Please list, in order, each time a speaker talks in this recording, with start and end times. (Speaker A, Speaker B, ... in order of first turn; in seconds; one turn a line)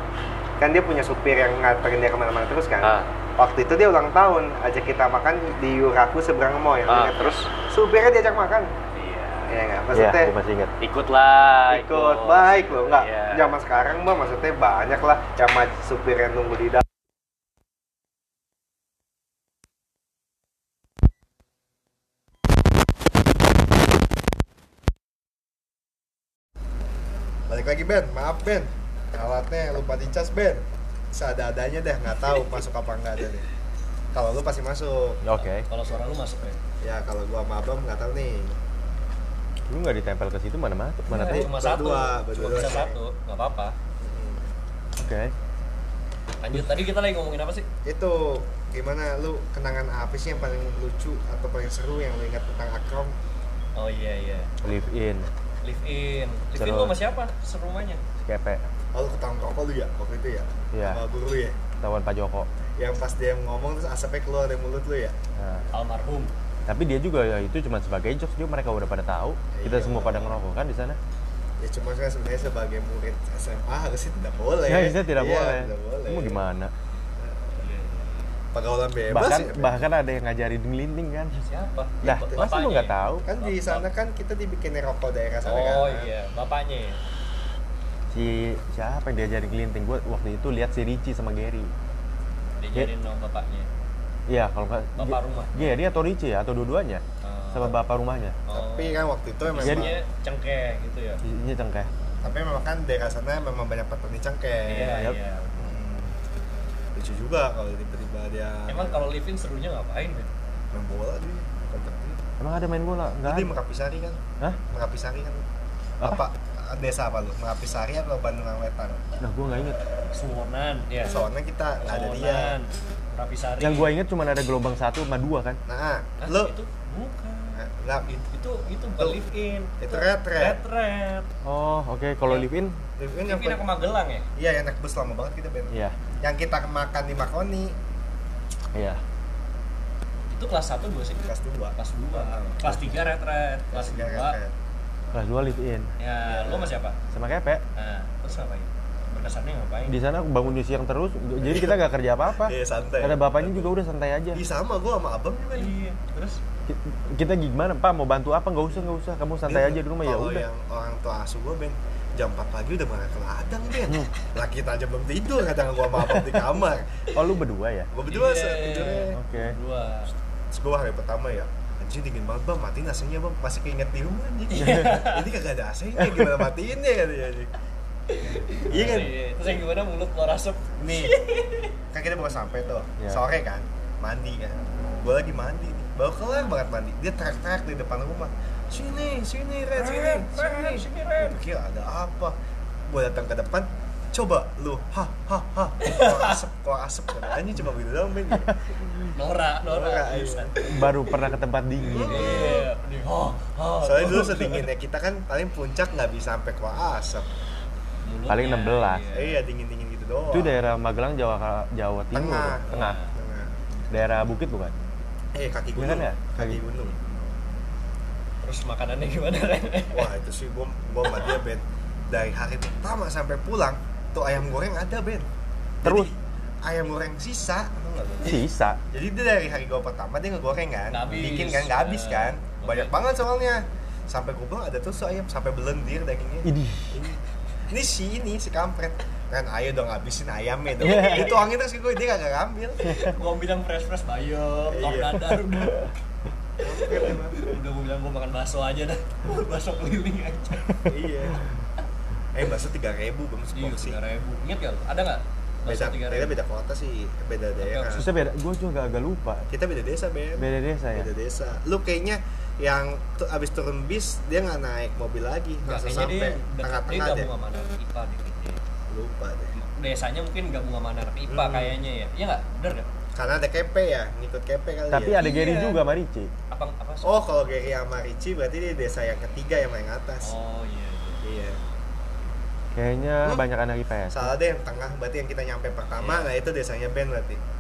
Speaker A: 0.6-8.7
Speaker B: 2.8-3.1
Speaker B: 6.9-7.5
Speaker B: 8.9-9.6
Speaker A: 9.5-10.3
Speaker C: 9.9-10.7
Speaker B: 10.8-13.4
Speaker A: 11.7-16.8
Speaker A: 27.5-30.6
Speaker A: 31.1-33.5
Speaker A: 34.1-35.2
Speaker C: 35.2-35.6
Speaker B: 35.6-36.6
Speaker A: 36.8-38.6
Speaker C: 39.7-41.5
Speaker B: 41.1-43.7
Speaker A: 41.3-43.0
Speaker A: 44.0-44.5
Speaker C: 45.0-45.3
Speaker B: 46.4-47.7
Speaker A: 47.8-53.1
Speaker B: 53.8-54.5
Speaker C: 54.6-55.3
Speaker B: 55.6-58.0
Speaker C: 56.5-57.0
Speaker C: 58.2-58.6
Speaker A: 58.9-61.6
Speaker C: 60.7-61.0
Speaker C: 61.8-62.5
Speaker A: 62.8-65.1
Speaker C: 65.4-65.6
Speaker B: 65.7-66.3
Speaker C: 66.7-71.0
Speaker A: 69.5-70.4
Speaker A: 71.6-76.4
Speaker C: 74.7-76.7
Speaker A: 77.2-77.6
Speaker B: 77.6-78.3
Speaker A: 78.5-79.8
Speaker C: 79.1-81.4
Speaker B: 81.4-83.8
Speaker A: 82.0-82.6
Speaker C: 82.0-83.2
Speaker A: 83.2-86.1
Speaker B: 85.5-87.0
Speaker C: 88.1-91.7
Speaker B: 92.6-93.7
Speaker C: 94.3-98.3
Speaker B: 95.0-95.7
Speaker B: 97.2-97.7
Speaker B: 98.5-101.2
Speaker A: 98.5-100.0
Speaker C: 99.6-99.9
Speaker C: 101.2-101.9
Speaker A: 102.2-106.1
Speaker B: 104.7-105.8
Speaker A: 106.9-109.0
Speaker B: 108.7-110.3
Speaker A: 110.7-112.2
Speaker C: 112.4-113.5
Speaker A: 113.2-114.2
Speaker A: 114.7-115.4
Speaker A: 116.0-119.0
Speaker C: 119.2-119.8
Speaker B: 120.1-121.1
Speaker A: 121.0-122.6
Speaker B: 121.8-123.9
Speaker C: 123.6-125.6
Speaker A: 125.7-126.5
Speaker B: 126.2-131.3
Speaker A: 127.5-128.1
Speaker A: 129.8-130.6
Speaker C: 131.4-132.8
Speaker A: 133.0-133.6
Speaker B: 133.2-134.2
Speaker A: 134.3-137.7
Speaker C: 138.7-139.0
Speaker B: 140.3-144.4
Speaker A: 141.2-142.8
Speaker A: 143.7-144.5
Speaker C: 145.1-145.9
Speaker B: 146.0-147.0
Speaker A: 146.2-146.7
Speaker C: 147.1-147.6
Speaker B: 147.8-150.0
Speaker C: 149.9-154.4
Speaker A: 151.4-153.7
Speaker A: 154.3-155.8
Speaker B: 155.5-156.4
Speaker C: 156.7-160.4
Speaker A: 159.4-167.0
Speaker C: 166.0-166.4
Speaker C: 167.1-167.9
Speaker A: 167.9-169.2
Speaker B: 168.1-170.1
Speaker C: 169.2-169.6
Speaker A: 170.5-177.5
Speaker B: 174.5-175.3
Speaker C: 174.6-174.9
Speaker B: 178.1-181.7
Speaker A: 178.7-179.1
Speaker C: 178.7-179.0
Speaker A: 180.8-181.2
Speaker A: 181.9-192.3
Speaker B: 189.7-191.4
Speaker A: 192.9-199.0
Speaker B: 195.8-196.4
Speaker B: 199.1-200.8
Speaker A: 199.7-200.6
Speaker C: 200.7-202.6
Speaker A: 201.9-202.7
Speaker B: 201.9-204.7
Speaker A: 203.8-207.3
Speaker B: 208.0-209.4
Speaker C: 208.3-209.0
Speaker A: 209.1-210.6
Speaker C: 210.3-213.0
Speaker A: 212.1-213.5
Speaker B: 212.7-213.1
Speaker C: 213.9-214.7
Speaker A: 215.3-216.9
Speaker C: 215.8-216.6
Speaker B: 216.8-217.3
Speaker B: 218.4-220.1
Speaker A: 219.9-225.2
Speaker B: 221.1-221.4
Speaker A: 225.8-226.1
Speaker C: 225.8-226.1
Speaker A: 226.6-243.0
Speaker C: 228.2-228.8
Speaker B: 230.9-232.9
Speaker C: 236.4-237.1
Speaker B: 240.8-241.3
Speaker C: 240.8-241.4
Speaker B: 242.8-245.9
Speaker A: 244.7-245.2
Speaker A: 246.6-247.4
Speaker B: 246.8-250.8
Speaker A: 250.8-251.4
Speaker A: 252.3-254.0
Speaker B: 253.5-256.4
Speaker A: 255.7-258.1
Speaker B: 257.6-258.2
Speaker C: 258.0-259.4
Speaker A: 259.5-267.3
Speaker C: 260.4-261.1
Speaker B: 265.6-268.6
Speaker A: 268.9-269.6
Speaker B: 269.5-272.9
Speaker A: 271.3-271.8
Speaker A: 273.1-275.3
Speaker C: 274.9-276.3
Speaker B: 275.1-275.8
Speaker B: 276.5-277.2
Speaker A: 277.0-280.3
Speaker B: 280.2-281.2
Speaker A: 281.2-281.6
Speaker C: 282.7-284.3
Speaker A: 284.1-287.4
Speaker B: 286.0-286.3